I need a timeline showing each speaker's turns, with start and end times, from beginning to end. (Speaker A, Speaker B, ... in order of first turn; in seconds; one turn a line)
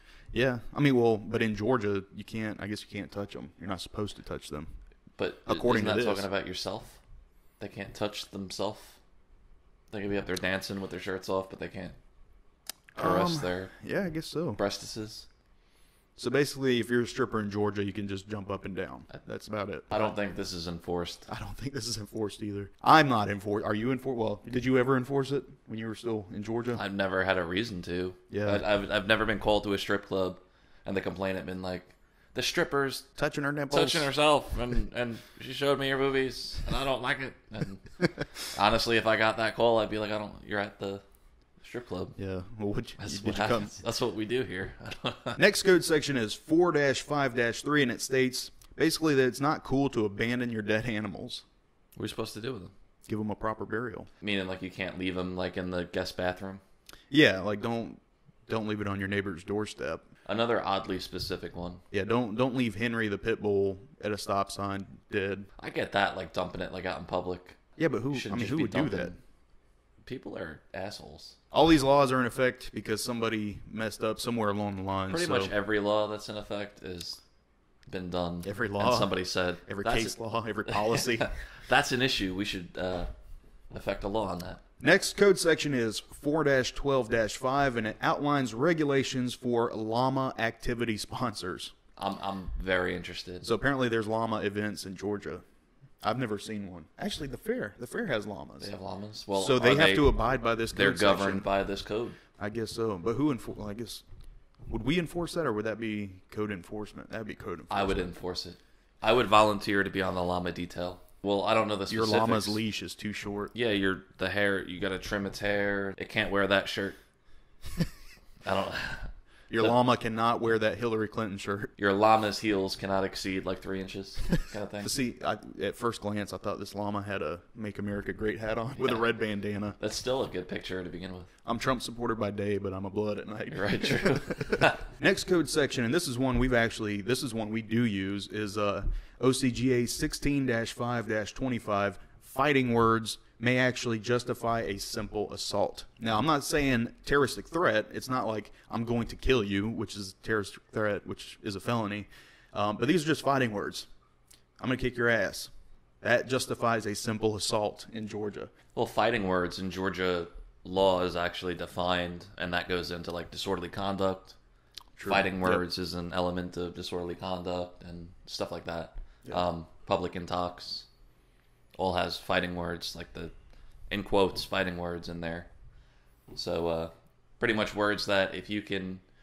Speaker A: 0.3-4.7
Speaker B: 5.2-7.0
Speaker A: 5.5-6.3
Speaker B: 7.6-9.0
Speaker B: 9.9-12.0
Speaker B: 13.0-13.8
Speaker A: 13.0-14.6
Speaker B: 14.6-15.3
Speaker A: 16.2-20.1
Speaker B: 19.9-21.3
Speaker A: 21.3-26.8
Speaker B: 26.7-33.1
Speaker A: 28.3-28.6
Speaker A: 33.2-34.1
Speaker B: 33.7-41.0
Speaker B: 41.6-42.2
Speaker A: 42.2-43.7
Speaker B: 43.0-45.4
Speaker A: 45.4-51.4
Speaker B: 52.0-52.7
Speaker A: 53.1-54.1
Speaker B: 54.2-56.6
Speaker A: 57.1-60.0
Speaker B: 60.2-61.8
Speaker A: 61.9-65.5
Speaker B: 65.6-67.6
Speaker A: 67.8-69.2
Speaker B: 68.1-69.2
Speaker B: 70.0-71.4
Speaker A: 71.5-75.5
Speaker B: 75.1-77.2
Speaker B: 77.9-83.1
Speaker A: 78.4-79.1
Speaker A: 79.7-81.3
Speaker B: 83.7-84.6
Speaker A: 84.8-91.7
Speaker B: 92.0-93.5
Speaker A: 93.4-95.4
Speaker A: 96.0-98.7
Speaker B: 98.6-100.2
Speaker A: 99.3-101.5
Speaker B: 100.7-102.2
Speaker A: 102.4-104.0
Speaker A: 104.7-108.1
Speaker B: 107.7-112.6
Speaker A: 111.9-113.5
Speaker B: 113.5-117.0
Speaker B: 118.4-119.7
Speaker A: 119.5-121.7
Speaker B: 121.8-124.9
Speaker A: 124.8-129.8
Speaker B: 128.8-129.1
Speaker B: 129.8-131.3
Speaker A: 131.4-153.9
Speaker B: 133.5-134.8
Speaker A: 154.6-158.5
Speaker B: 158.8-164.4
Speaker A: 165.0-165.6
Speaker B: 165.1-170.9
Speaker B: 171.8-173.3
Speaker B: 173.9-175.5
Speaker B: 176.3-179.0